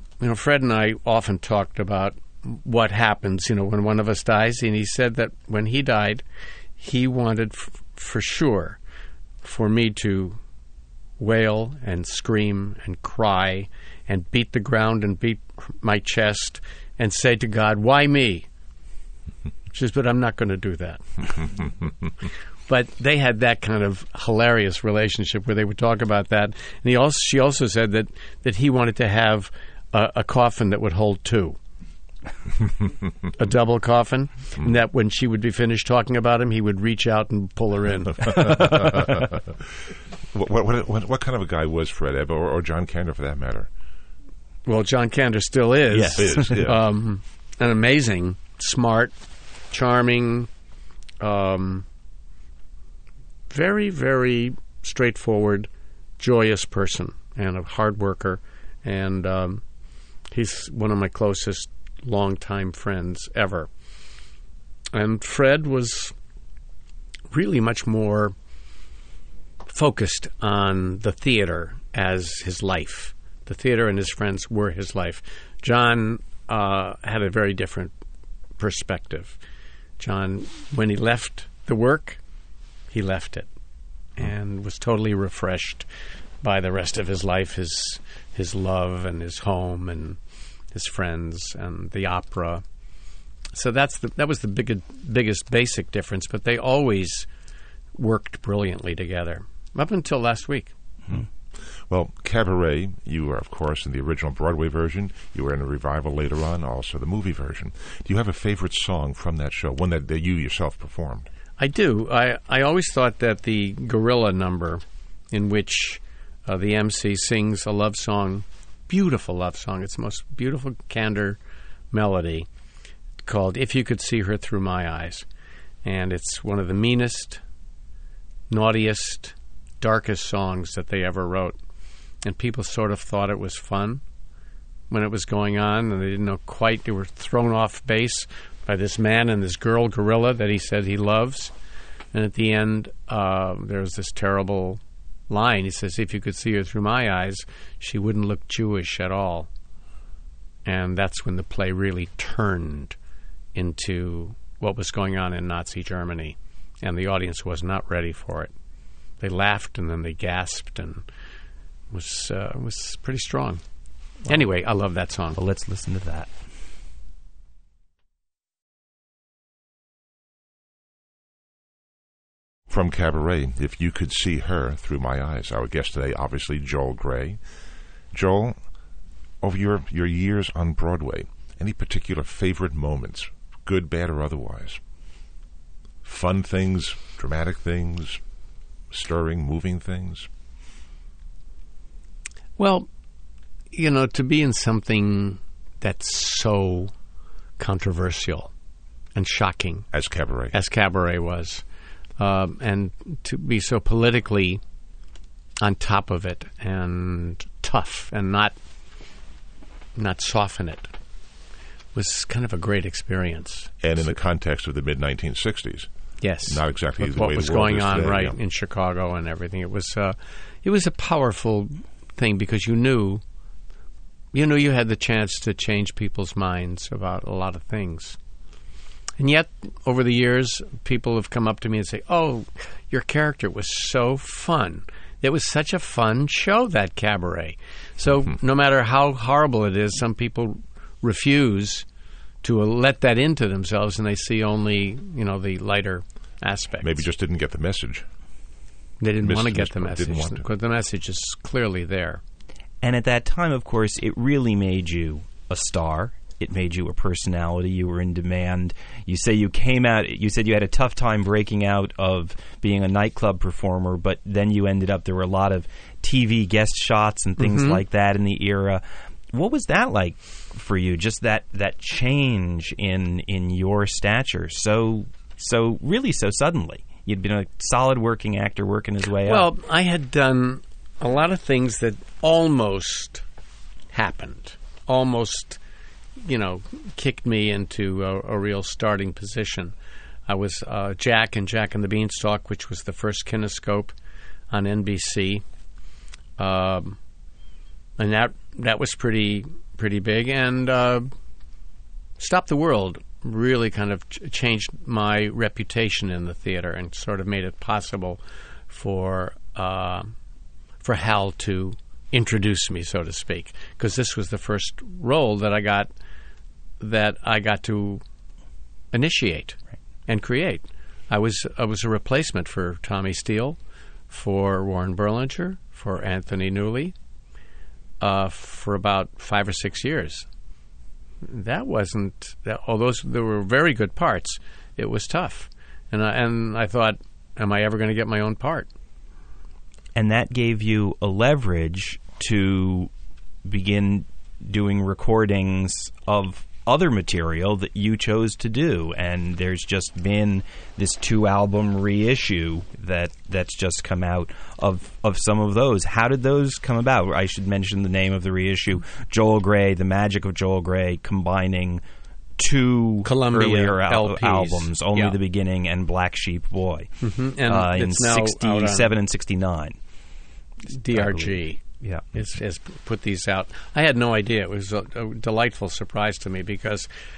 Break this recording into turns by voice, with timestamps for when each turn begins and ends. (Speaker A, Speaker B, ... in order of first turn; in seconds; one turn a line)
Speaker A: 0.2-6.2
Speaker A: 6.8-8.8
Speaker A: 9.4-10.4
Speaker A: 11.2-18.4
Speaker A: 19.7-21.6
Speaker A: 22.7-31.6
Speaker A: 33.3-38.9
Speaker B: 38.5-39.3
Speaker B: 40.3-43.7
Speaker A: 44.6-49.1
Speaker C: 45.9-46.6
Speaker B: 46.2-46.8
Speaker A: 49.7-50.5
Speaker A: 51.2-51.9
Speaker A: 53.5-59.6
Speaker A: 60.3-63.7
Speaker A: 64.9-66.1
Speaker A: 67.3-68.3
Speaker A: 69.7-77.9
Speaker A: 78.6-79.4
Speaker A: 80.0-82.2
Speaker A: 82.9-83.5
Speaker A: 84.2-85.8
Speaker A: 86.4-90.2
Speaker A: 90.7-92.6
Speaker A: 93.5-97.3
Speaker A: 97.9-100.7
Speaker B: 101.9-111.3
Speaker A: 111.6-121.4
Speaker A: 121.9-122.5
Speaker A: 123.2-125.2
Speaker A: 125.8-127.4
Speaker A: 128.5-131.6
Speaker A: 132.2-134.0
Speaker A: 134.9-141.5
Speaker A: 142.1-149.5
Speaker A: 150.6-153.0
Speaker A: 153.5-158.5
Speaker A: 159.2-161.0
Speaker A: 161.9-163.6
Speaker A: 164.2-165.4
Speaker C: 165.3-166.3
Speaker B: 172.7-177.4
Speaker B: 178.1-178.7
Speaker B: 179.4-184.8
Speaker B: 186.0-188.2
Speaker B: 188.9-190.3
Speaker A: 192.6-192.9
Speaker A: 193.7-196.9
Speaker A: 197.6-198.5
Speaker A: 199.1-199.9
Speaker B: 199.9-200.5
Speaker A: 200.5-201.6
Speaker A: 202.2-204.6
Speaker A: 205.6-208.6
Speaker A: 209.9-210.9
Speaker A: 211.9-213.8
Speaker B: 213.8-215.9
Speaker A: 216.2-223.2
Speaker B: 216.5-218.3
Speaker A: 224.3-228.2
Speaker A: 229.2-241.8
Speaker A: 242.4-247.0
Speaker B: 246.8-248.1
Speaker A: 249.0-252.2
Speaker B: 249.2-250.4
Speaker C: 252.8-279.5
Speaker A: 267.4-267.8
Speaker A: 279.2-283.2
Speaker A: 283.9-285.6
Speaker A: 286.2-289.7
Speaker A: 290.3-293.9
Speaker A: 294.5-295.4
Speaker A: 296.4-297.0
Speaker A: 298.0-301.1
Speaker A: 302.2-310.1
Speaker A: 310.8-315.9
Speaker A: 316.8-318.0
Speaker A: 318.9-323.6
Speaker A: 324.1-326.9
Speaker A: 328.0-330.3
Speaker A: 331.2-338.7
Speaker C: 339.9-342.9
Speaker C: 343.4-361.8
Speaker C: 362.4-366.9
Speaker A: 363.0-365.2
Speaker A: 367.0-368.9
Speaker C: 367.4-369.8
Speaker A: 370.7-371.6
Speaker C: 370.9-372.2
Speaker A: 372.1-376.9